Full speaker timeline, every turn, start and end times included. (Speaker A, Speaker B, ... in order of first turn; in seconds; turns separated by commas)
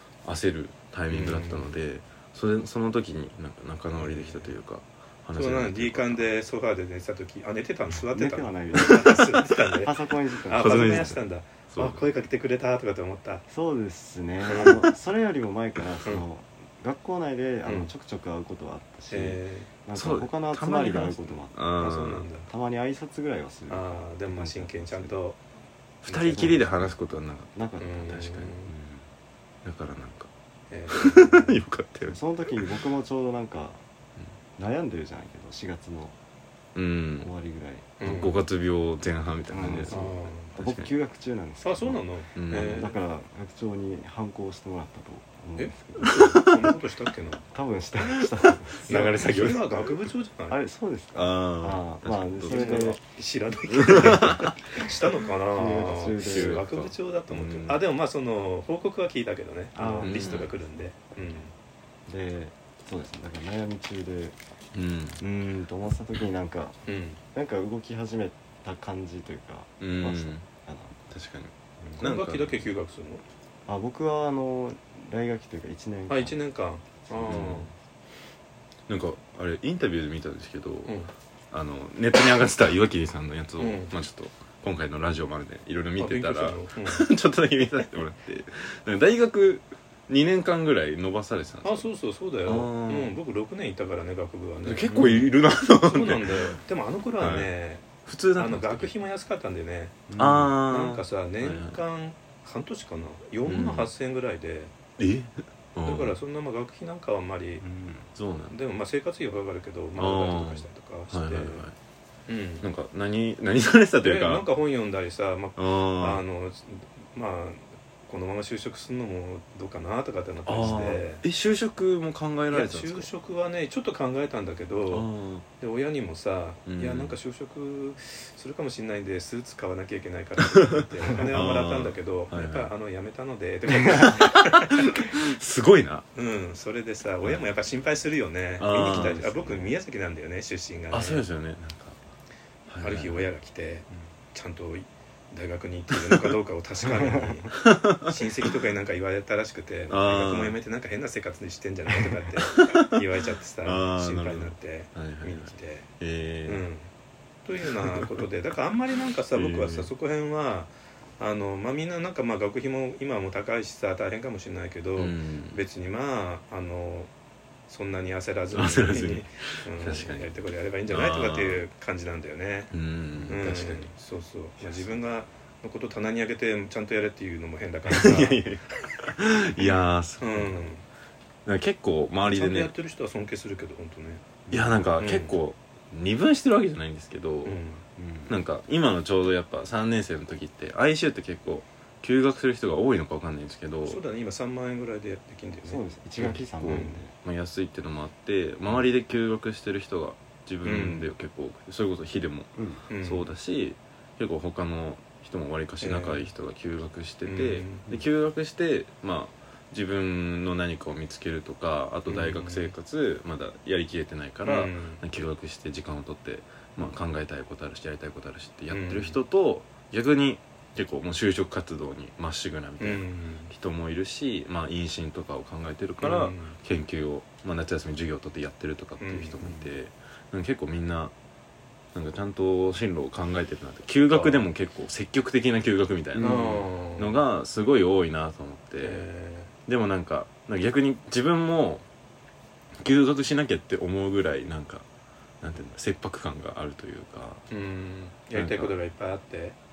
Speaker A: 0.2-6.3, Speaker B: 1.1-1.7, Speaker B: 3.9-4.5, Speaker B: 5.3-13.4, Speaker C: 8.1-11.2, Speaker A: 10.5-11.2, Speaker A: 11.7-12.0, Speaker C: 13.5-21.6, Speaker B: 14.4-14.9, Speaker B: 17.6-17.9, Speaker B: 19.1-19.7, Speaker A: 19.9-22.3, Speaker B: 21.8-22.5, Speaker C: 22.4-25.2, Speaker B: 23.7-25.4, Speaker A: 26.0-28.5, Speaker B: 26.1-26.6, Speaker C: 26.3-27.0, Speaker C: 27.5-29.0, Speaker B: 27.8-28.7, Speaker A: 29.6-30.3, Speaker B: 30.7-31.6, Speaker A: 30.9-32.2, Speaker C: 32.1-33.8, Speaker C: 34.6-36.1, Speaker A: 36.7-37.3, Speaker C: 37.2-37.9, Speaker B: 38.0-38.4, Speaker A: 38.0-40.9, Speaker C: 39.5-46.2, Speaker B: 39.9-40.5, Speaker B: 41.6-43.0, Speaker A: 42.3-42.9, Speaker B: 45.6-47.4, Speaker A: 46.0-46.7, Speaker C: 47.5-49.1, Speaker A: 48.7-49.9, Speaker B: 48.9-50.6, Speaker C: 50.5-53.0, Speaker A: 51.1-53.0, Speaker B: 52.5-61.5, Speaker A: 53.7-54.5, Speaker C: 53.9-54.9, Speaker C: 55.5-56.6, Speaker A: 56.1-57.8, Speaker C: 59.8-60.5, Speaker A: 60.0-60.5, Speaker C: 62.1-64.4, Speaker A: 64.7-65.2, Speaker C: 65.2-66.8, Speaker B: 66.8-67.2, Speaker C: 67.3-71.0, Speaker A: 69.8-70.4, Speaker A: 71.1-72.7, Speaker B: 72.0-73.2, Speaker C: 73.7-76.4, Speaker B: 76.1-77.7, Speaker A: 77.2-77.7, Speaker A: 78.9-81.0, Speaker B: 80.8-81.1, Speaker A: 81.5-91.9, Speaker B: 83.6-83.9, Speaker B: 86.0-87.1, Speaker B: 91.6-104.7, Speaker A: 92.4-93.1, Speaker A: 94.6-96.3, Speaker C: 94.9-95.3, Speaker A: 97.2-97.5, Speaker A: 98.0-98.9, Speaker C: 100.1-100.6, Speaker A: 100.2-101.8, Speaker A: 103.4-103.9, Speaker A: 105.0-106.2, Speaker B: 105.8-107.6, Speaker C: 107.6-108.1, Speaker A: 108.2-108.5, Speaker B: 108.5-111.7, Speaker A: 110.0-111.7, Speaker B: 112.3-112.7, Speaker A: 112.6-114.5, Speaker B: 114.0-121.2, Speaker A: 115.5-116.2, Speaker A: 120.5-123.1, Speaker B: 122.5-125.1, Speaker A: 124.9-125.5, Speaker B: 125.6-134.9, Speaker A: 126.7-127.2, Speaker A: 130.5-132.7, Speaker A: 134.0-136.1, Speaker B: 136.1-141.2, Speaker A: 138.6-139.6, Speaker C: 139.2-139.7, Speaker A: 140.9-142.0, Speaker A: 142.7-143.3, Speaker B: 142.8-155.9, Speaker C: 146.8-147.4, Speaker A: 147.5-148.3, Speaker A: 149.9-150.6, Speaker A: 152.5-152.9, Speaker A: 153.6-156.6, Speaker B: 156.4-156.9, Speaker B: 157.4-167.1, Speaker A: 157.6-158.2, Speaker A: 159.3-159.9, Speaker A: 165.0-165.6, Speaker B: 167.7-172.7, Speaker A: 168.5-170.3, Speaker A: 170.9-171.6, Speaker A: 172.7-173.9, Speaker B: 173.3-178.4, Speaker A: 177.9-180.7, Speaker B: 179.6-180.8, Speaker A: 181.4-182.7, Speaker B: 182.3-184.2, Speaker C: 184.5-184.8, Speaker A: 184.5-187.6, Speaker B: 185.0-185.3, Speaker B: 187.4-187.8, Speaker C: 187.9-188.3, Speaker A: 188.3-194.0, Speaker B: 193.8-197.0, Speaker C: 195.6-197.1, Speaker A: 196.4-231.1, Speaker B: 200.6-201.1, Speaker C: 202.6-202.8, Speaker B: 202.9-203.3, Speaker B: 205.8-206.3, Speaker B: 207.2-207.9, Speaker B: 212.1-212.7, Speaker B: 214.4-215.0, Speaker B: 218.7-219.2, Speaker B: 222.8-223.5, Speaker B: 226.0-226.6, Speaker B: 229.0-229.6, Speaker A: 231.9-239.1, Speaker B: 234.1-234.5, Speaker C: 236.2-236.7, Speaker B: 236.2-237.2, Speaker B: 238.8-239.5, Speaker A: 239.7-241.8, Speaker A: 242.8-244.8, Speaker A: 245.4-247.4, Speaker B: 247.5-249.6, Speaker A: 248.3-248.7